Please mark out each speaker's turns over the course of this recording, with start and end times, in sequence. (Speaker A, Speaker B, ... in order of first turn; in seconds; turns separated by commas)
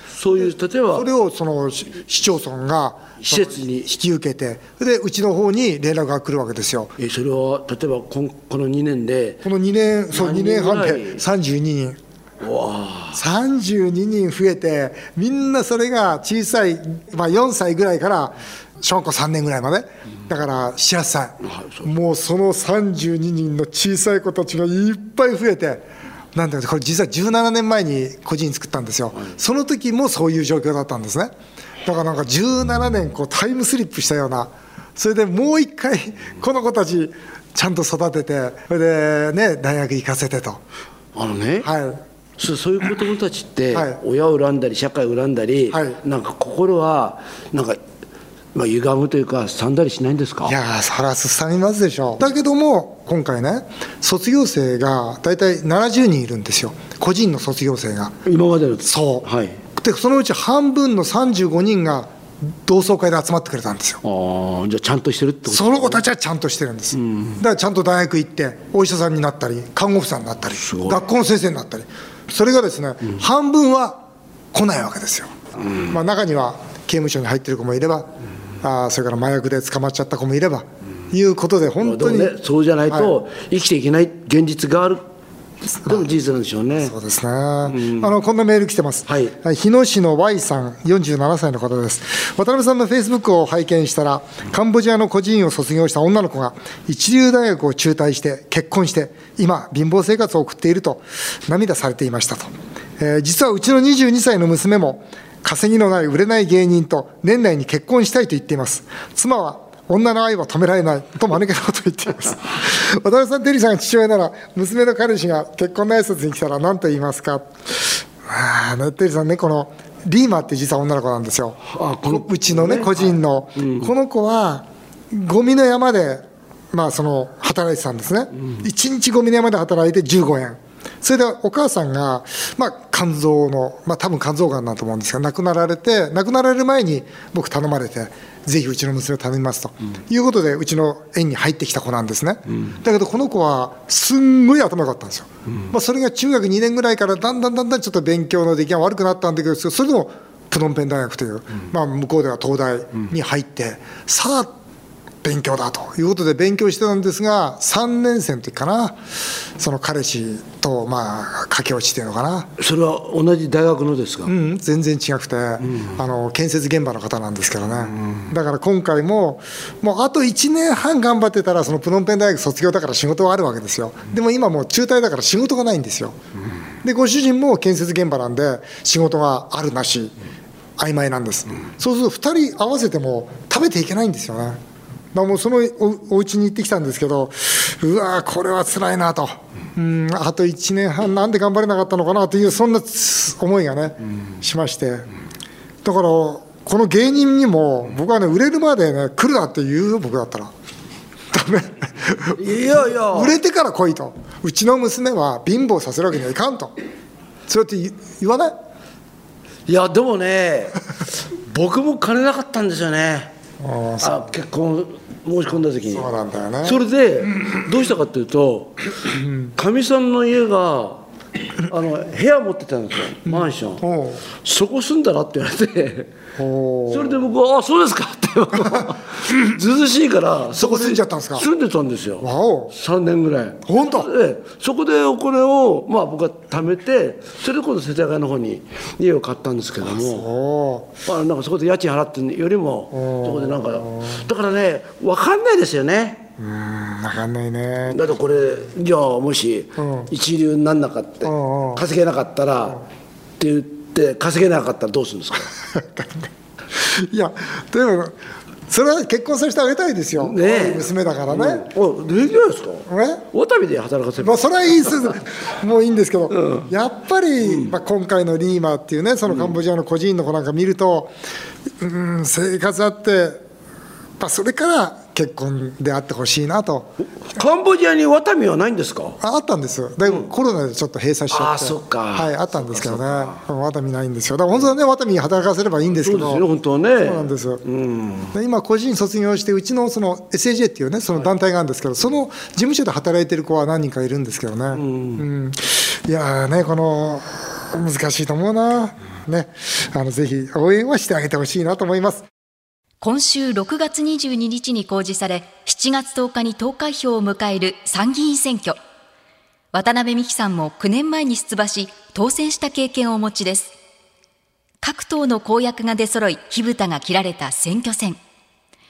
Speaker A: 0.1-1.1, Speaker B: 0.4-6.9, Speaker A: 3.2-3.9, Speaker A: 7.0-9.4, Speaker B: 9.4-12.0, Speaker A: 10.1-11.2, Speaker A: 12.4-13.2, Speaker B: 13.1-31.3, Speaker A: 21.4-21.9, Speaker B: 31.9-40.6, Speaker A: 41.1-41.7, Speaker B: 41.6-42.0, Speaker A: 42.4-47.8, Speaker B: 43.7-44.0, Speaker B: 45.7-46.0, Speaker A: 48.5-50.6, Speaker B: 50.5-58.2, Speaker A: 58.2-59.6, Speaker B: 58.8-62.1, Speaker B: 62.6-64.0, Speaker A: 64.0-66.0, Speaker B: 65.5-74.0, Speaker A: 66.9-67.4, Speaker A: 70.6-71.0, Speaker B: 74.5-75.3, Speaker A: 75.6-75.9, Speaker B: 75.9-78.1, Speaker B: 78.6-82.3, Speaker A: 81.8-85.0, Speaker B: 82.9-83.2, Speaker A: 85.8-87.0, Speaker B: 86.8-154.5, Speaker A: 87.7-88.1, Speaker A: 89.1-89.3, Speaker A: 121.7-123.9, Speaker B: 155.2-159.0, Speaker B: 159.6-162.5, Speaker A: 162.6-164.3, Speaker B: 164.3-176.2, Speaker A: 165.6-166.0, Speaker A: 167.8-168.3, Speaker B: 176.8-180.1, Speaker B: 180.8-184.6, Speaker B: 185.1-195.1, Speaker B: 195.8-200.5, Speaker B: 201.3-206.7, Speaker A: 202.3-203.4, Speaker B: 207.5-208.6, Speaker A: 209.7-213.3, Speaker B: 213.6-214.4, Speaker A: 214.0-216.1, Speaker B: 215.9-216.8, Speaker A: 216.6-221.1, Speaker B: 219.2-219.5, Speaker A: 221.6-226.1, Speaker B: 223.3-224.2, Speaker B: 226.4-227.2, Speaker A: 226.9-240.3, Speaker B: 230.5-231.5, Speaker B: 232.2-232.8, Speaker B: 233.7-234.1, Speaker B: 239.9-241.0, Speaker A: 241.1-246.3, Speaker B: 242.9-244.2, Speaker B: 246.4-248.1, Speaker A: 247.9-252.8, Speaker B: 249.8-250.1, Speaker B: 251.2-251.8, Speaker A: 253.4-255.5, Speaker B: 255.7-258.1, Speaker B: 258.7-261.7, Speaker A: 260.2-265.1, Speaker B: 262.9-263.2, Speaker B: 264.2-271.1, Speaker A: 266.3-266.7, Speaker A: 267.4-267.7, Speaker A: 269.3-269.6, Speaker B: 271.8-273.4, Speaker B: 274.2-276.9, Speaker A: 277.3-279.2, Speaker B: 279.2-286.4, Speaker A: 281.3-283.4, Speaker A: 286.0-288.3, Speaker B: 287.0-287.6, Speaker B: 288.3-302.3, Speaker A: 294.7-295.2, Speaker C: 303.0-308.8, Speaker C: 309.7-313.7, Speaker C: 314.8-318.2